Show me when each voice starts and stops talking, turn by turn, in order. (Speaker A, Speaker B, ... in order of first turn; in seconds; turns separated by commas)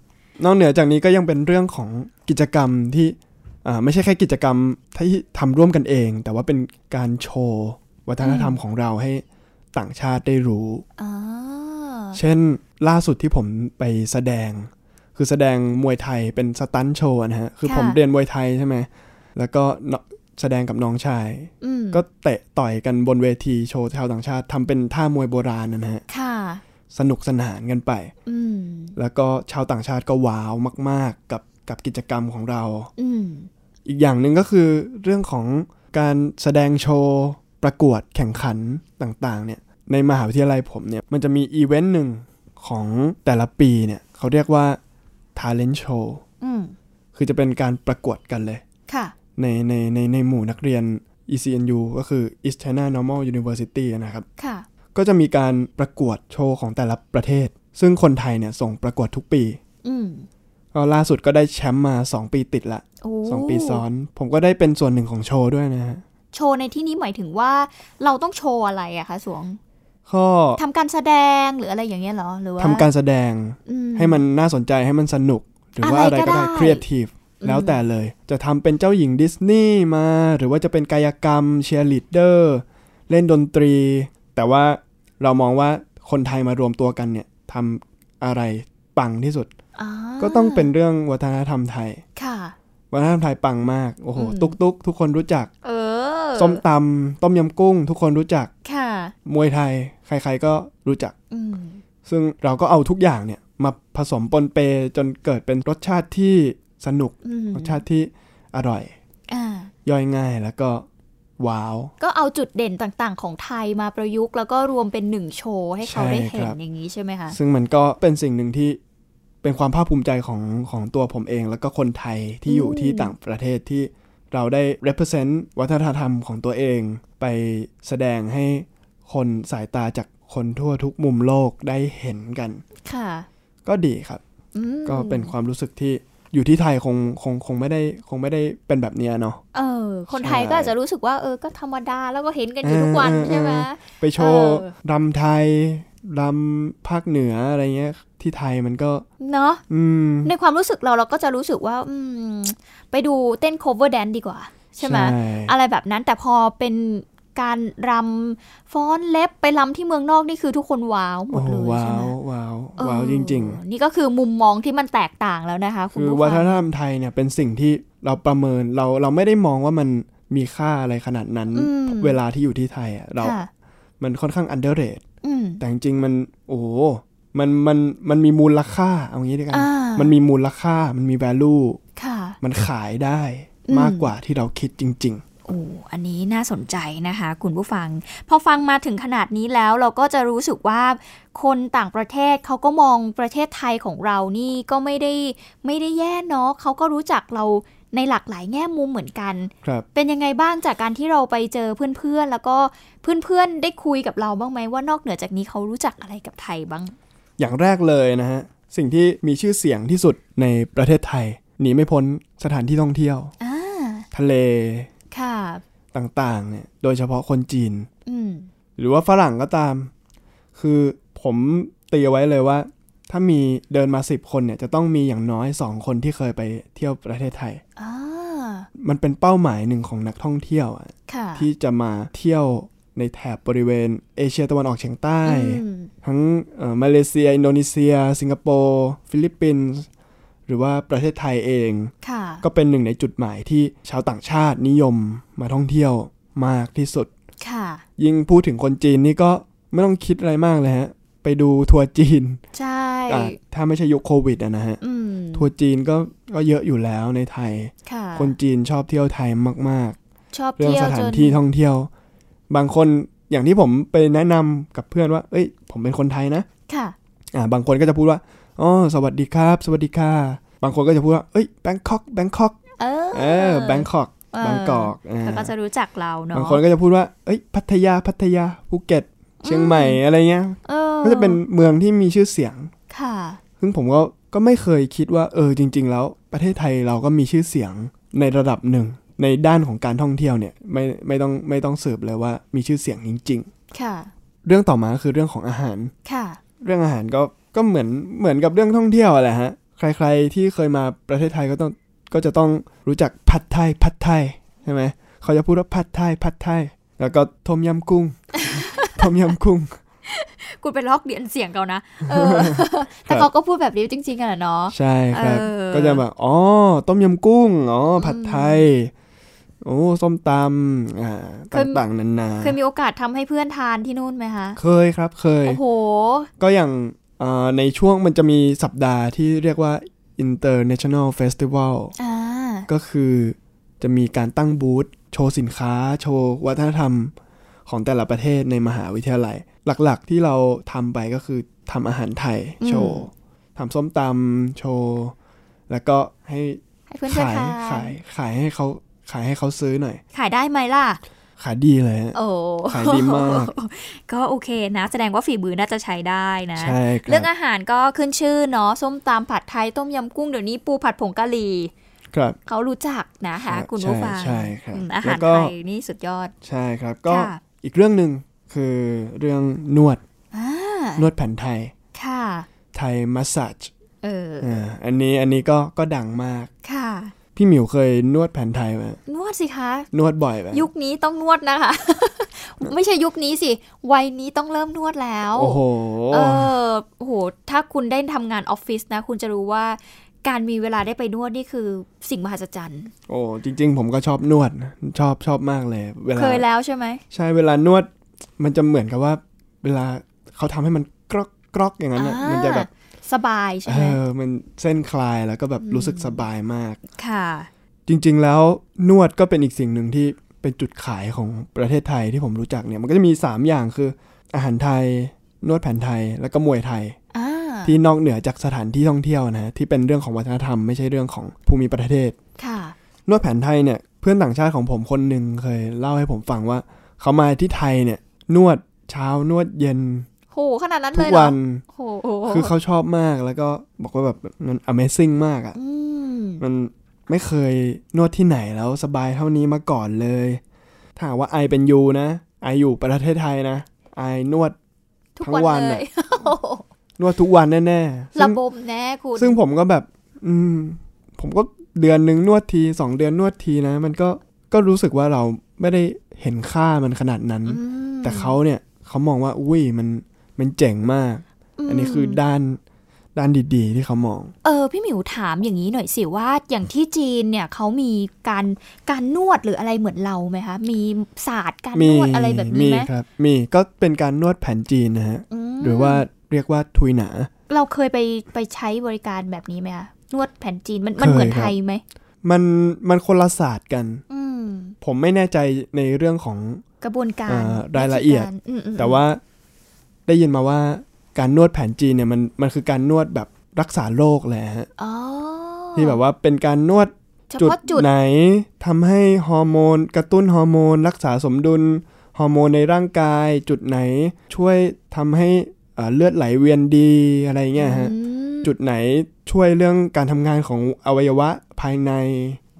Speaker A: 0.4-10.8, Speaker B: 8.2-8.6, Speaker B: 11.0-12.2, Speaker A: 12.1-26.0, Speaker B: 17.6-18.0, Speaker B: 21.6-22.0, Speaker B: 26.1-26.6, Speaker A: 26.9-28.1, Speaker B: 28.2-28.9, Speaker A: 28.9-32.9, Speaker B: 33.0-33.5, Speaker A: 33.9-44.8, Speaker A: 45.3-46.2, Speaker B: 46.4-46.7, Speaker A: 47.1-48.6, Speaker B: 48.9-49.1, Speaker A: 49.4-54.2, Speaker B: 54.4-54.6, Speaker A: 54.9-59.6, Speaker B: 59.8-60.3, Speaker A: 60.7-66.0, Speaker B: 63.0-63.8, Speaker B: 66.3-69.6, Speaker A: 70.1-70.6, Speaker B: 70.6-72.8, Speaker A: 72.6-89.5, Speaker B: 73.7-74.2, Speaker B: 75.8-76.8, Speaker B: 77.4-77.8, Speaker B: 89.8-90.7, Speaker A: 90.2-92.0, Speaker B: 92.2-92.5, Speaker A: 92.9-95.5, Speaker B: 94.2-94.5, Speaker B: 95.6-96.6, Speaker A: 96.3-98.5, Speaker B: 98.6-99.1, Speaker A: 99.2-101.1, Speaker B: 101.3-101.8, Speaker A: 102.0-108.9, Speaker B: 107.2-107.8, Speaker B: 109.3-109.7, Speaker A: 109.8-110.9, Speaker A: 111.4-111.9, Speaker B: 112.0-117.4, Speaker A: 115.8-116.5, Speaker A: 117.3-118.8, Speaker A: 119.4-132.6, Speaker B: 122.5-123.1, Speaker B: 132.8-133.3, Speaker A: 133.6-134.2, Speaker B: 134.5-135.3, Speaker A: 134.8-139.4, Speaker B: 139.5-144.7, Speaker A: 140.1-140.7, Speaker A: 142.6-149.1, Speaker B: 149.2-149.6, Speaker A: 149.7-150.3, Speaker B: 150.2-162.1, Speaker A: 154.8-155.5, Speaker A: 161.3-163.6, Speaker B: 162.8-166.6, Speaker A: 165.9-173.4, Speaker B: 171.5-172.2, Speaker B: 173.2-173.5, Speaker A: 174.0-175.0, Speaker B: 175.2-175.6, Speaker A: 175.6-181.8, Speaker B: 179.5-180.1, Speaker B: 182.0-182.4, Speaker A: 182.4-185.2, Speaker B: 183.7-184.1, Speaker B: 185.5-206.9, Speaker A: 207.4-213.3, Speaker B: 213.4-214.1, Speaker A: 214.1-214.9, Speaker B: 215.1-215.6, Speaker A: 215.9-217.9, Speaker B: 218.1-218.5, Speaker A: 218.8-219.9, Speaker A: 220.6-227.6, Speaker B: 227.8-228.7, Speaker A: 228.8-239.9, Speaker B: 231.1-231.5, Speaker B: 235.2-235.9, Speaker A: 240.5-247.1, Speaker B: 242.0-242.4, Speaker B: 247.4-247.8, Speaker A: 248.0-252.4, Speaker B: 252.5-253.4, Speaker A: 253.1-254.8, Speaker B: 254.8-255.5, Speaker A: 255.3-260.0, Speaker B: 257.9-258.3, Speaker B: 260.3-261.4, Speaker A: 260.6-261.9, Speaker A: 262.5-266.5, Speaker B: 266.7-266.9, Speaker A: 267.3-272.6, Speaker B: 272.8-276.6, Speaker A: 273.1-275.5, Speaker A: 276.3-282.7, Speaker B: 279.4-280.0, Speaker B: 280.6-281.4, Speaker B: 282.9-283.4, Speaker A: 283.6-293.5, Speaker B: 293.7-294.1, Speaker A: 294.4-295.9, Speaker B: 296.0-296.4, Speaker A: 296.6-309.8, Speaker B: 308.4-309.0, Speaker B: 310.1-316.0, Speaker A: 312.0-313.3, Speaker A: 314.7-318.9, Speaker B: 318.0-318.6, Speaker A: 319.6-322.6, Speaker B: 321.5-321.8, Speaker B: 322.4-324.6, Speaker A: 324.6-325.6, Speaker B: 325.4-326.3, Speaker A: 326.4-331.9, Speaker B: 332.0-332.7, Speaker A: 332.7-337.1, Speaker A: 337.6-345.1, Speaker B: 342.6-343.1, Speaker A: 345.7-350.0, Speaker B: 346.9-347.9, Speaker B: 350.1-351.0, Speaker A: 351.4-352.2, Speaker B: 352.1-361.7, Speaker A: 352.7-353.5, Speaker A: 356.6-357.3, Speaker A: 362.1-362.4, Speaker B: 362.4-366.3, Speaker A: 363.4-365.5, Speaker A: 366.4-370.0, Speaker B: 367.1-367.4, Speaker B: 370.3-371.1, Speaker A: 371.0-371.7, Speaker B: 371.9-372.5, Speaker A: 372.7-373.7, Speaker B: 374.0-374.6, Speaker A: 374.4-376.5, Speaker B: 376.6-377.1, Speaker A: 377.3-379.0, Speaker B: 379.1-379.9, Speaker A: 379.9-380.7, Speaker B: 380.5-392.9, Speaker A: 385.4-386.5, Speaker A: 393.1-396.4, Speaker B: 396.1-397.0, Speaker A: 397.1-402.7, Speaker B: 401.9-404.0, Speaker A: 403.6-406.8, Speaker B: 405.6-406.2, Speaker B: 407.0-407.5, Speaker A: 407.9-417.0, Speaker B: 417.1-417.8, Speaker A: 417.6-422.2, Speaker B: 422.4-422.7, Speaker A: 423.1-430.1, Speaker B: 430.3-432.5, Speaker A: 430.9-431.6, Speaker A: 432.3-435.6, Speaker B: 435.5-436.4, Speaker A: 436.4-440.4, Speaker A: 440.9-444.6, Speaker B: 445.2-446.6, Speaker A: 445.2-445.8, Speaker A: 447.0-448.4, Speaker B: 448.1-449.4, Speaker A: 449.1-462.6, Speaker B: 457.5-458.4, Speaker B: 461.6-462.2, Speaker A: 463.1-464.3, Speaker B: 464.4-472.9, Speaker A: 471.7-477.3, Speaker B: 475.3-476.0, Speaker B: 477.5-481.8, Speaker A: 481.0-481.5, Speaker A: 482.2-484.0, Speaker B: 484.1-484.8, Speaker A: 484.8-486.6, Speaker B: 486.8-489.0, Speaker A: 487.3-489.2, Speaker A: 490.1-494.7, Speaker B: 494.8-496.0, Speaker A: 495.8-512.4, Speaker B: 497.3-497.9, Speaker B: 507.6-508.5